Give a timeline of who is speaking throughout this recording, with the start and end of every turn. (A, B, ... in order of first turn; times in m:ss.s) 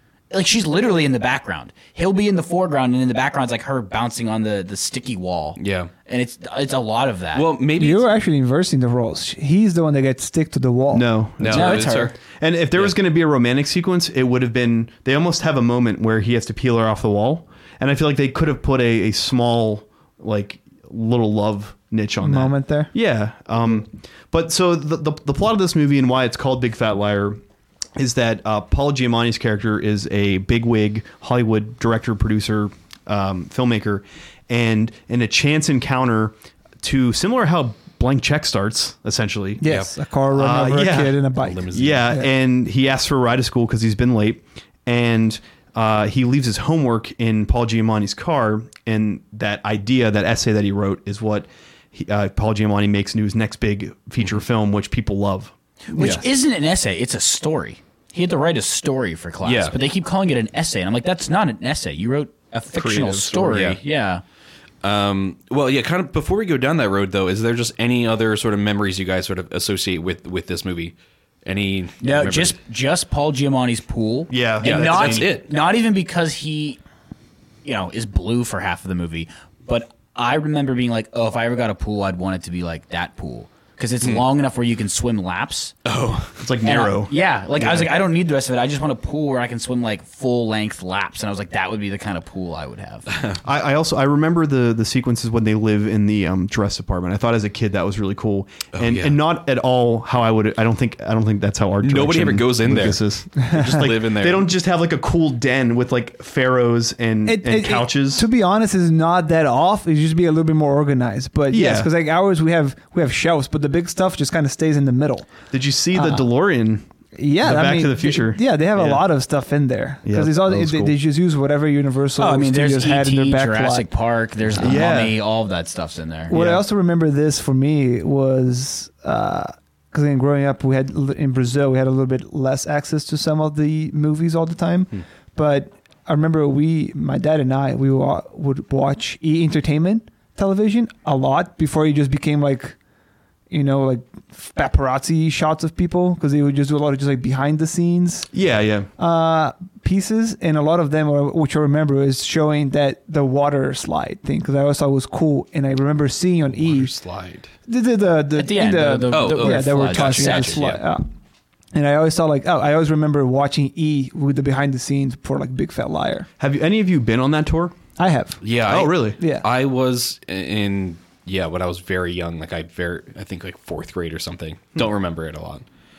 0:00.3-0:07.5 A
0:05.6-0:05.9 B
0:07.3-0:08.1 B
0:07.8-0:11.2 C
0:10.9-0:27.4 D
0:11.4-0:12.1 B
0:11.5-0:12.1 A
0:22.2-0:22.9 C
0:28.0-0:39.7 D
0:39.6-0:42.3 C
0:39.6-0:39.9 B
0:40.3-0:55.5 D
0:41.4-0:42.1 B
0:55.9-1:04.2 A
0:56.0-0:56.2 B
0:59.4-0:59.7 B
1:02.8-1:03.8 B
1:04.8-1:12.6 B
1:12.0-1:16.8 A
1:14.3-1:15.4 D
1:14.6-1:15.5 B
1:17.6-1:25.7 A
1:25.8-1:26.4 B
1:26.4-1:27.9 D
1:26.6-1:33.1 A
1:33.1-1:33.4 B
1:33.4-1:48.3 D
1:38.7-1:39.2 B
1:41.8-1:44.5 B
1:47.2-1:55.4 C
1:51.5-1:51.9 D
1:55.5-1:56.8 D
1:55.9-1:56.2 C
1:57.2-2:03.9 C
1:57.4-1:59.0 D
2:00.0-2:01.0 D
2:02.2-2:06.3 A
2:04.5-2:05.2 D
2:06.3-2:22.8 C
2:06.3-2:06.6 D
2:23.5-2:28.3 C
2:28.3-2:28.9 D
2:29.0-2:36.9 C
2:36.5-2:37.5 B
2:37.7-2:41.1 C
2:38.3-2:40.8 A
2:39.1-2:40.8 B
2:41.7-2:46.3 C
2:46.4-2:47.8 D
2:48.0-2:48.4 C
2:48.4-2:55.6 B
2:48.7-2:49.2 D
2:49.2-2:49.4 C